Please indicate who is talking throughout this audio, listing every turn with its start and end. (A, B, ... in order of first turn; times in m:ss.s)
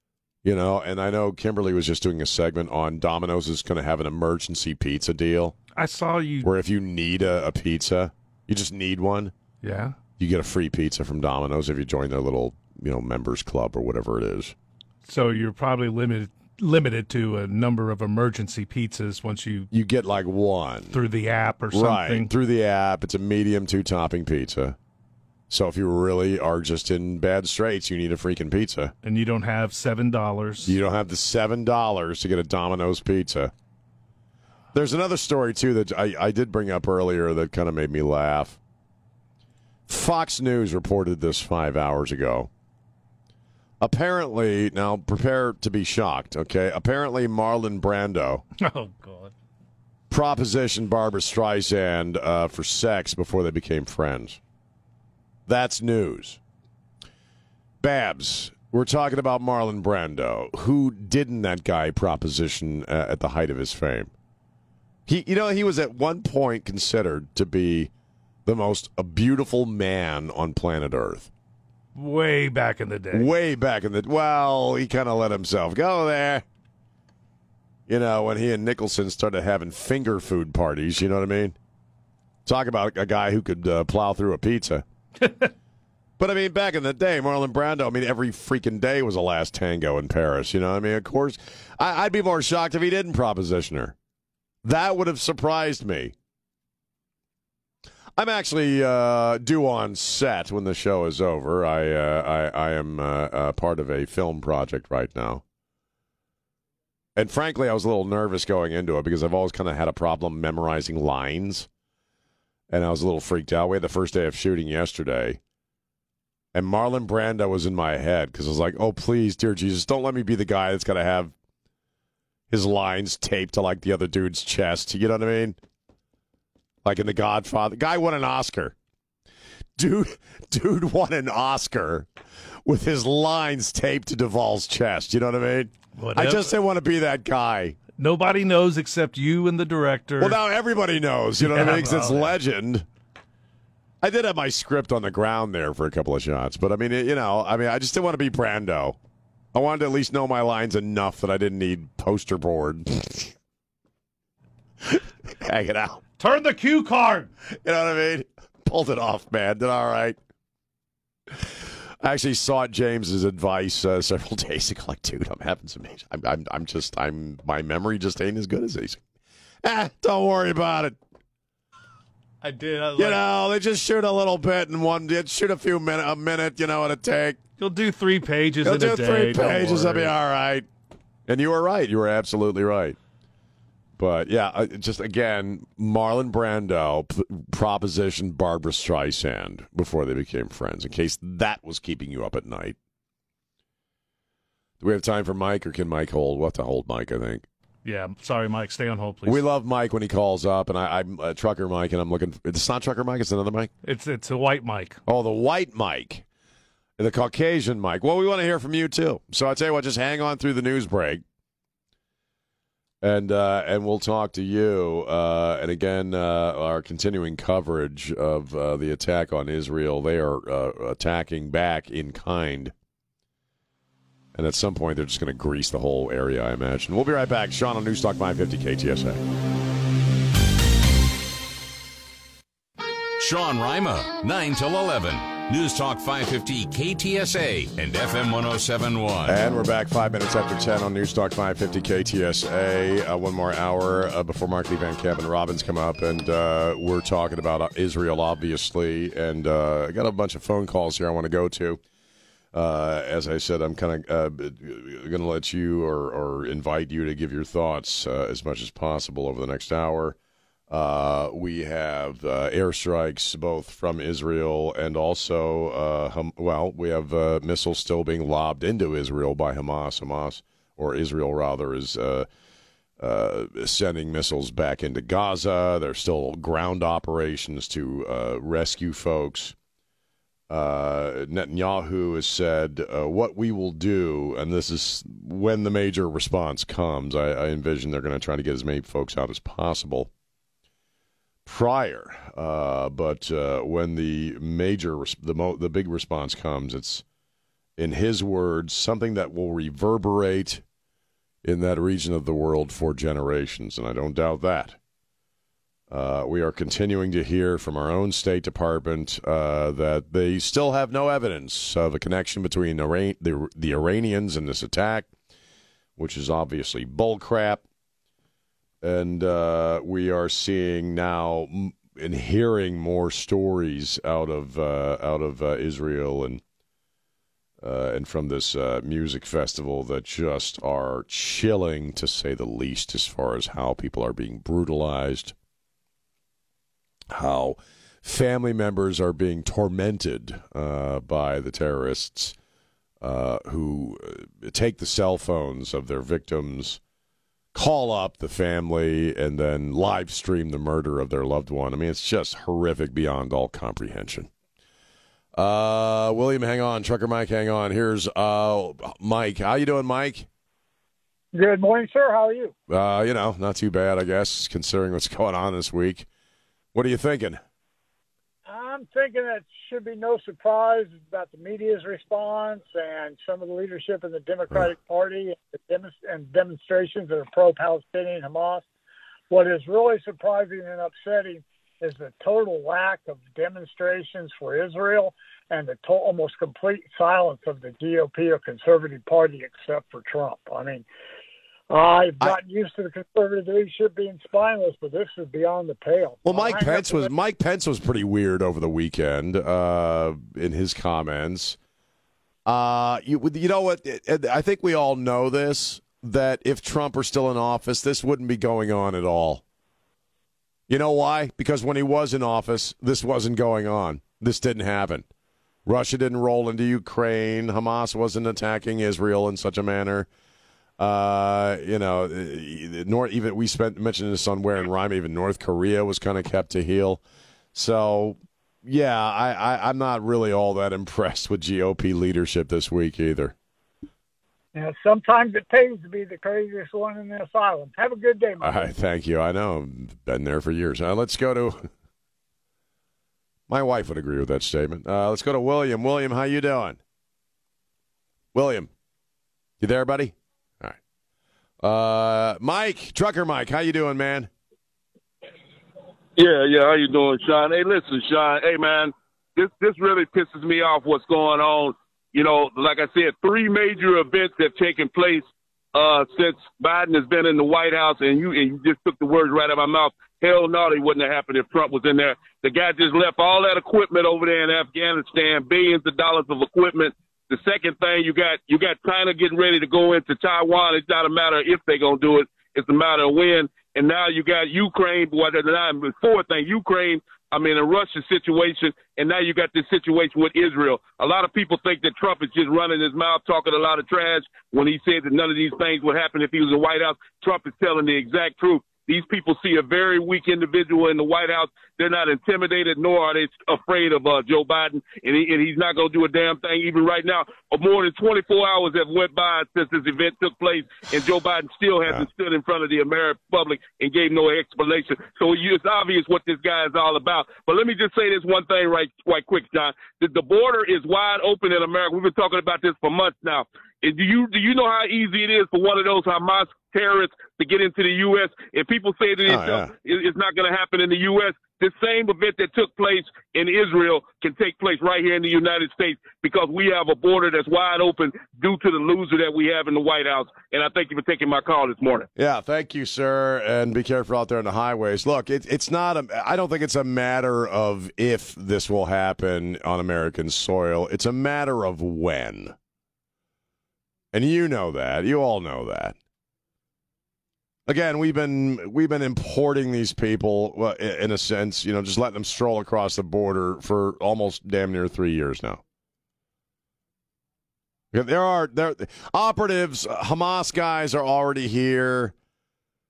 0:00.4-0:05.6 A
0:05.8-0:06.5 B
0:06.4-0:09.3 A
0:09.6-0:10.0 B
0:10.2-0:14.5 A
0:15.0-0:19.7 B
0:19.7-0:21.0 A
0:20.9-0:22.3 B
0:21.7-0:24.8 A
0:25.5-0:28.9 A
0:29.0-0:30.8 B
0:30.6-0:33.5 A
0:34.7-0:38.6 A
0:39.9-0:42.5 A
0:43.8-0:48.4 A
0:48.6-0:49.3 B
0:50.1-0:54.4 A
0:55.5-0:56.4 A
0:57.8-1:04.1 A
1:05.1-1:07.9 A
1:08.4-1:11.3 A
1:11.9-1:13.3 B
1:13.1-1:16.4 A
1:17.9-1:21.5 A
1:22.4-1:24.8 A
1:26.2-1:33.9 A
1:34.6-1:36.1 A
1:38.2-1:45.4 A
1:47.2-1:51.7 A
1:52.7-1:55.4 A
1:56.5-2:01.3 A
2:02.5-2:05.6 A
2:06.8-2:08.7 A
2:09.8-2:12.1 A
2:12.6-2:17.8 A
2:16.0-2:16.5 B
2:18.0-2:20.4 B
2:20.2-2:22.8 A
2:21.4-2:22.3 B
2:24.0-2:29.0 A
2:29.5-2:33.3 A
2:34.8-2:36.0 A
2:36.2-2:37.3 B
2:37.6-2:40.2 A
2:42.0-2:49.0 A
2:49.6-2:51.0 A
2:52.4-2:53.2 B
2:53.0-2:57.4 A
2:57.6-3:00.1 B
2:58.6-3:00.7 A
3:01.3-3:03.0 A
3:04.0-3:12.8 A
3:14.8-3:17.5 A
3:17.8-3:19.4 B
3:19.2-3:23.7 A
3:23.8-3:25.0 B
3:25.1-3:26.2 A
3:27.0-3:31.2 A
3:33.0-3:42.7 A
3:44.3-3:49.2 A
3:53.2-3:59.4 C
3:59.3-4:11.8 A
4:12.5-4:20.2 A
4:20.7-4:32.3 A
4:33.0-4:39.5 A
4:40.5-4:50.1 A
4:51.4-4:57.0 A
4:57.8-5:00.6 A
5:01.4-5:04.8 A
5:05.9-5:15.1 A
5:16.0-5:17.6 A
5:18.8-5:26.4 A
5:27.6-5:35.3 A
5:37.1-5:42.3 A
5:43.0-5:46.8 A
5:47.5-5:54.3 A
5:55.3-6:00.3 A
6:01.3-6:02.5 D
6:02.7-6:06.1 A
6:06.7-6:07.4 A
6:08.5-6:18.6 D
6:19.3-6:30.8 D
6:31.7-6:37.1 D
6:36.2-6:41.6 A
6:42.4-6:49.4 A
6:50.7-6:55.1 A
6:55.6-7:00.1 A
7:00.8-7:07.0 A
7:07.5-7:13.3 A
7:14.5-7:18.7 D
7:18.4-7:21.7 A
7:23.5-7:26.8 A
7:28.3-7:28.7 A
7:29.6-7:30.8 A
7:31.6-7:34.3 A
7:36.2-9:02.1 E
8:49.2-8:49.7 A
9:02.2-9:12.5 A
9:14.1-9:16.0 A
9:17.7-9:25.6 A
9:27.9-9:32.1 A